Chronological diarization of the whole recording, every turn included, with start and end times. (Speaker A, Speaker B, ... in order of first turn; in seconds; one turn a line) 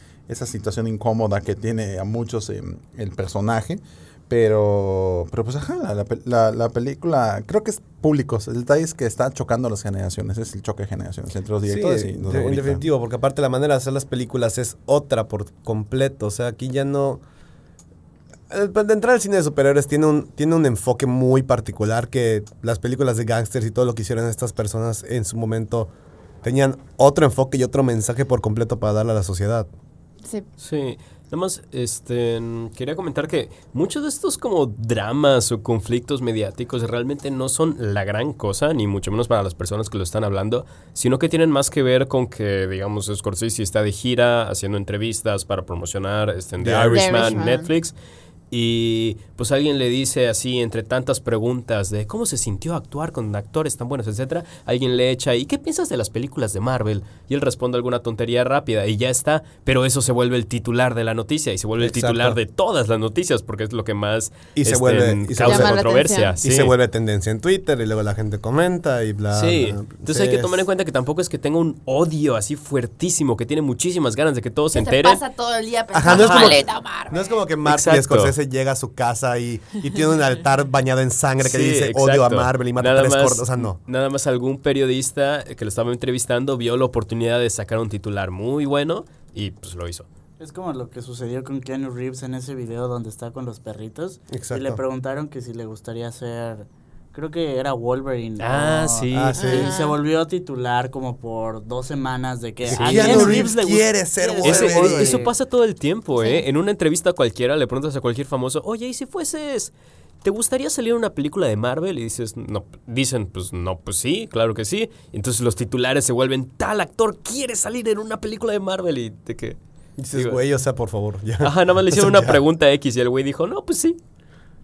Speaker A: 0.3-12.8
Speaker B: 11.7-17.2
Speaker B: 18.5-25.9
Speaker B: 26.4-29.7
Speaker C: 30.6-47.9
Speaker B: 46.6-47.5
Speaker D: 46.9-47.7
Speaker C: 48.5-66.7
Speaker B: 61.8-62.4
Speaker B: 64.6-65.8
Speaker D: 65.4-66.3
Speaker B: 66.4-70.7
Speaker C: 69.3-75.2
Speaker D: 74.7-77.4
Speaker B: 75.9-83.8
Speaker C: 76.1-76.6
Speaker C: 77.7-78.3
Speaker C: 81.4-90.1
Speaker E: 90.4-105.3
Speaker B: 94.3-94.8
Speaker C: 98.4-99.4
Speaker B: 99.1-99.7
Speaker D: 99.4-100.0
Speaker B: 102.7-105.3
Speaker C: 102.7-103.5
Speaker C: 104.4-109.7
Speaker C: 110.2-119.6
Speaker B: 120.0-122.4
Speaker C: 120.1-120.4
Speaker C: 121.4-124.0